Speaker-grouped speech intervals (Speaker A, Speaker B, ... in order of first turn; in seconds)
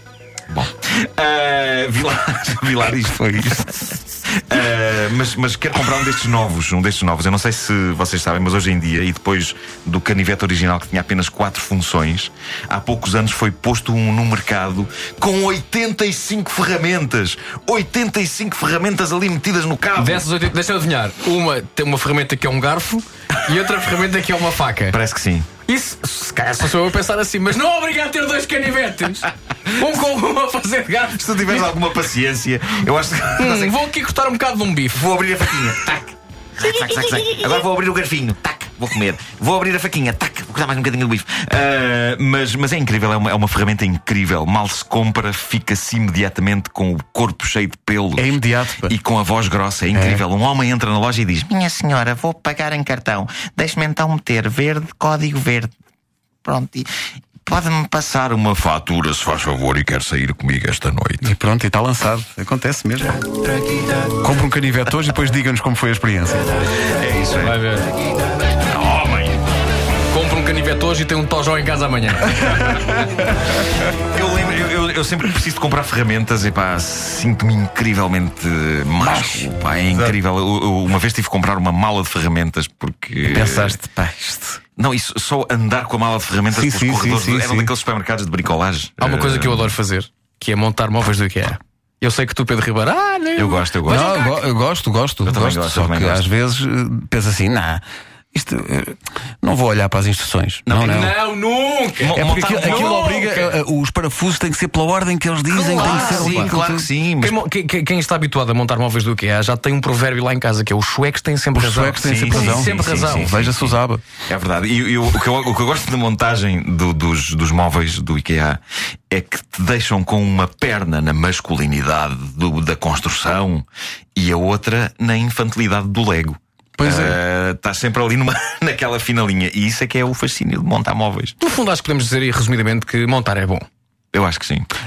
Speaker A: 0.5-20.2, 24.9-25.5, 31.1-33.8, 34.9-55.7, 56.4-56.9, 57.4-61.3, 66.9-67.6, 68.7-69.4, 73.9-83.8, 84.8-89.7, 93.3-94.1, 95.2-96.3, 102.0-103.0, 105.5-107.3, 112.0-113.8, 114.3-131.3, 134.1-134.7
Speaker B: 3.1-3.7, 48.1-48.9, 49.9-50.2, 61.2-63.2, 64.2-66.5, 72.4-72.9, 79.0-80.2, 83.2-84.6, 86.5-87.7, 93.9-97.8, 98.3-101.2, 102.1-106.9, 111.5-114.0, 126.8-127.2
Speaker C: 19.9-24.9, 25.7-31.7, 33.4-35.1, 36.6-37.6, 67.4-67.9, 70.1-72.6, 89.0-94.5, 100.7-103.5, 105.5-106.6, 107.2-113.4, 131.4-133.7